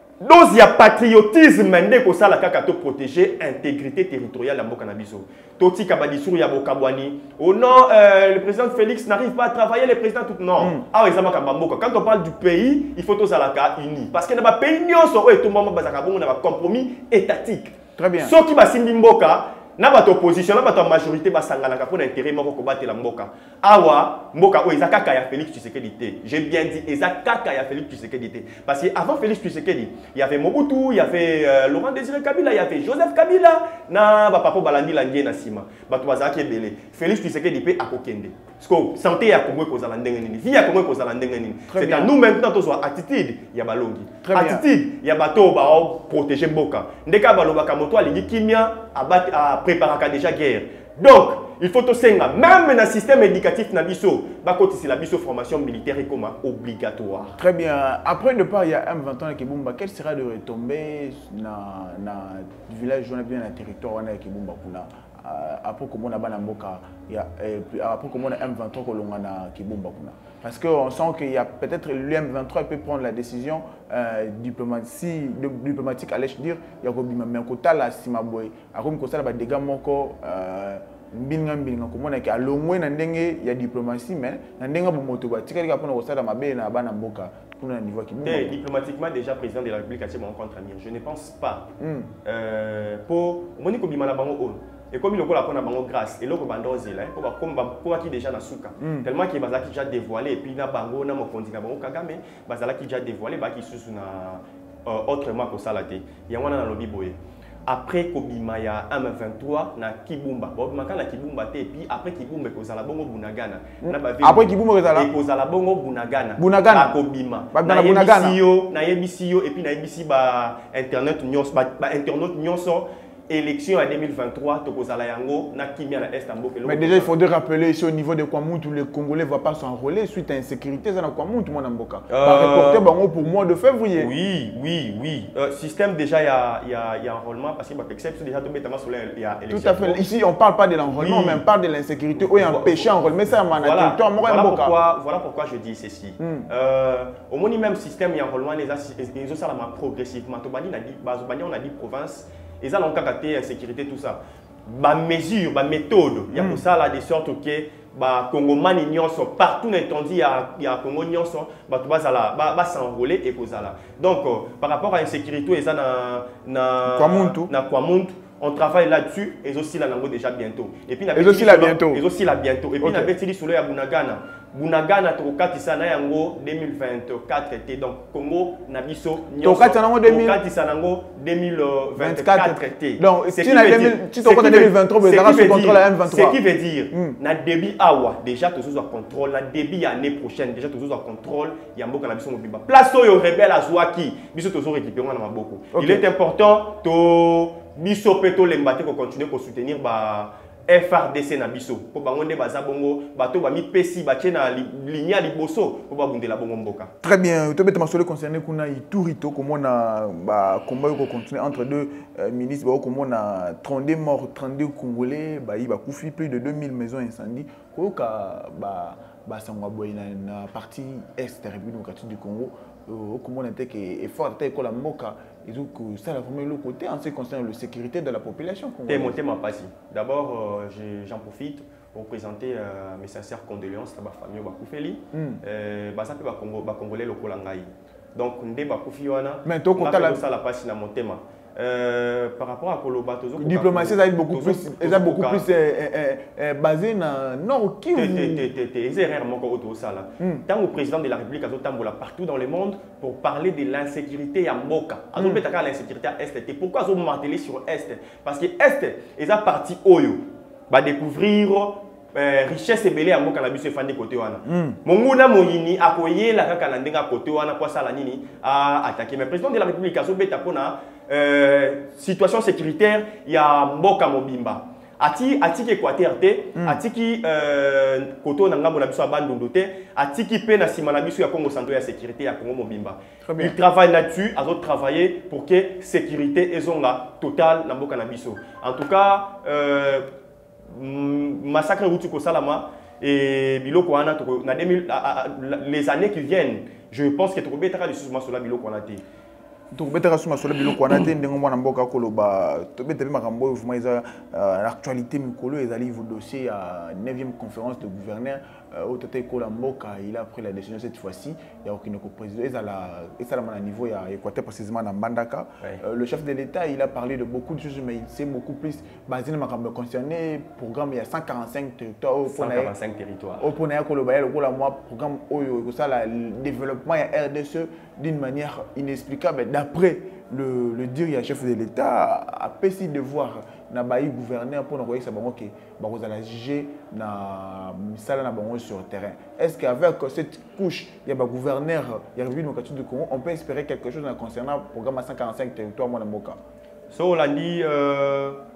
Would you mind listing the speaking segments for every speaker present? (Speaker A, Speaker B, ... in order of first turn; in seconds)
Speaker A: 0.2-57.4, 88.2-91.7, 92.2-127.1, 132.1-132.9, 134.0-140.1, 141.0-141.4, 142.2-206.9, 228.9-245.4, 247.9-290.1, 290.7-299.0, 322.3-323.5, 346.9-348.4
Speaker B: 10.6-10.8, 18.0-18.4, 41.7-42.1, 44.2-44.6, 57.4-88.6, 91.8-92.1, 98.8-99.1, 113.8-115.1, 116.4-117.0, 117.5-118.4, 126.7-134.1, 139.5-144.8, 146.2-146.5, 156.3-156.6, 166.9-167.5, 171.2-172.0, 172.8-173.1, 179.4-180.4, 182.0-186.4, 186.9-187.2, 195.7-196.1, 207.0-229.2, 235.1-235.4, 239.5-240.2, 243.4-248.5, 255.2-255.4, 264.4-264.8, 283.2-283.6, 299.7-322.7, 323.4-346.4